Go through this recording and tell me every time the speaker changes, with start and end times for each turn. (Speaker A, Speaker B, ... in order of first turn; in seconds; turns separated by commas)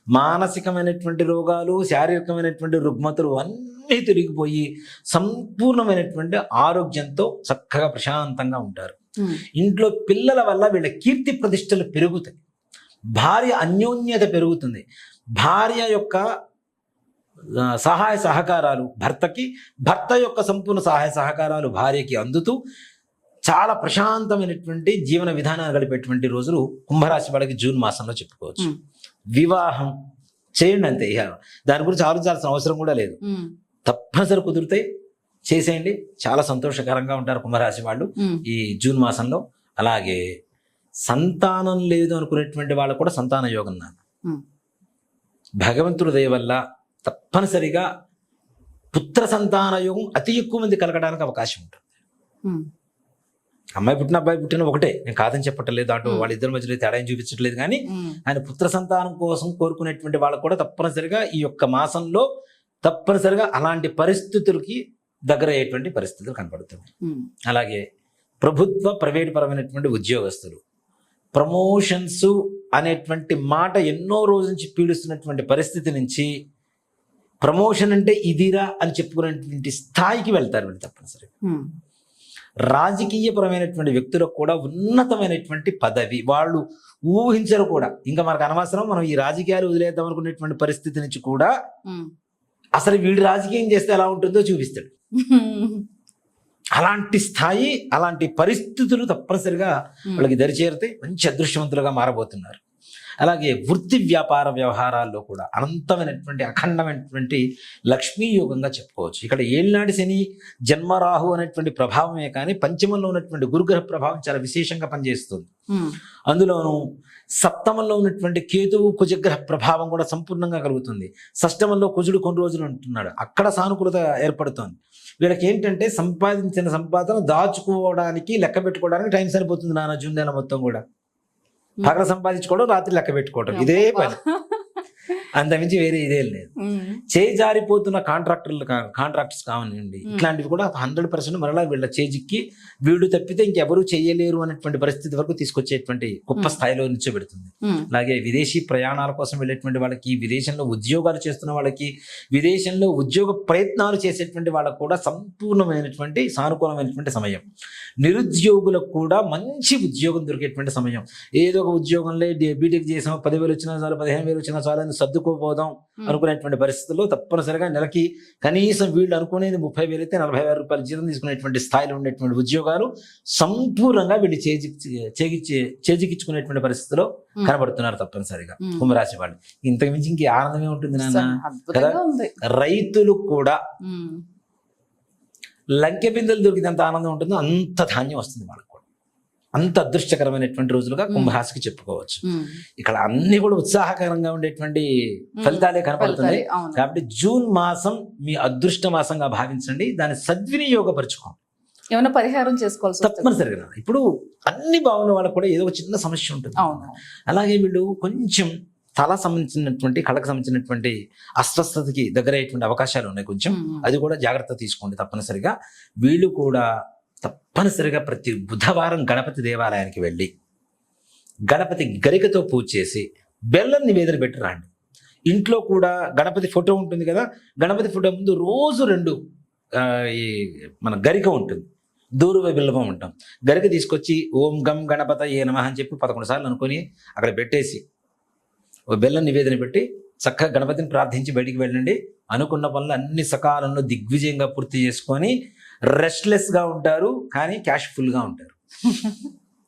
Speaker A: 0.1-8.9, Speaker A: 9.6-12.4, Speaker A: 13.1-14.8, Speaker A: 15.4-16.2, Speaker A: 17.6-22.6, Speaker A: 23.4-28.7, Speaker A: 29.3-29.9, Speaker A: 30.6-33.2, Speaker B: 33.2-33.5, Speaker A: 33.9-34.8, Speaker A: 35.5-40.2, Speaker B: 38.2-38.4, Speaker A: 41.1-44.0, Speaker A: 45.6-47.9, Speaker A: 48.9-51.8, Speaker A: 53.8-62.2, Speaker B: 56.0-56.3, Speaker B: 57.9-58.2, Speaker A: 62.8-66.9, Speaker A: 67.5-67.8, Speaker A: 68.4-70.6, Speaker A: 71.3-76.3, Speaker A: 77.4-81.3, Speaker A: 82.7-91.5, Speaker A: 92.8-94.9, Speaker B: 95.2-95.8, Speaker A: 96.8-102.6, Speaker A: 103.2-115.5, Speaker A: 116.3-116.8, Speaker A: 117.4-130.8, Speaker A: 131.8-134.2, Speaker B: 133.5-134.6, Speaker A: 135.3-136.5, Speaker B: 136.6-137.0, Speaker A: 137.1-157.4, Speaker A: 158.0-182.0, Speaker B: 178.6-178.9, Speaker B: 181.0-182.3, Speaker A: 182.5-183.6, Speaker B: 183.8-184.2, Speaker A: 185.8-188.8, Speaker A: 189.6-192.2, Speaker B: 191.1-191.3, Speaker B: 192.2-192.6, Speaker A: 192.8-201.4, Speaker B: 195.4-196.8, Speaker B: 201.9-203.4, Speaker A: 203.0-216.7, Speaker B: 206.6-207.0, Speaker B: 213.5-213.9, Speaker A: 217.2-220.3, Speaker A: 221.5-224.7, Speaker A: 225.3-229.2, Speaker A: 229.8-231.7, Speaker A: 232.2-237.8, Speaker A: 238.9-245.3, Speaker A: 245.9-248.6, Speaker B: 248.9-249.2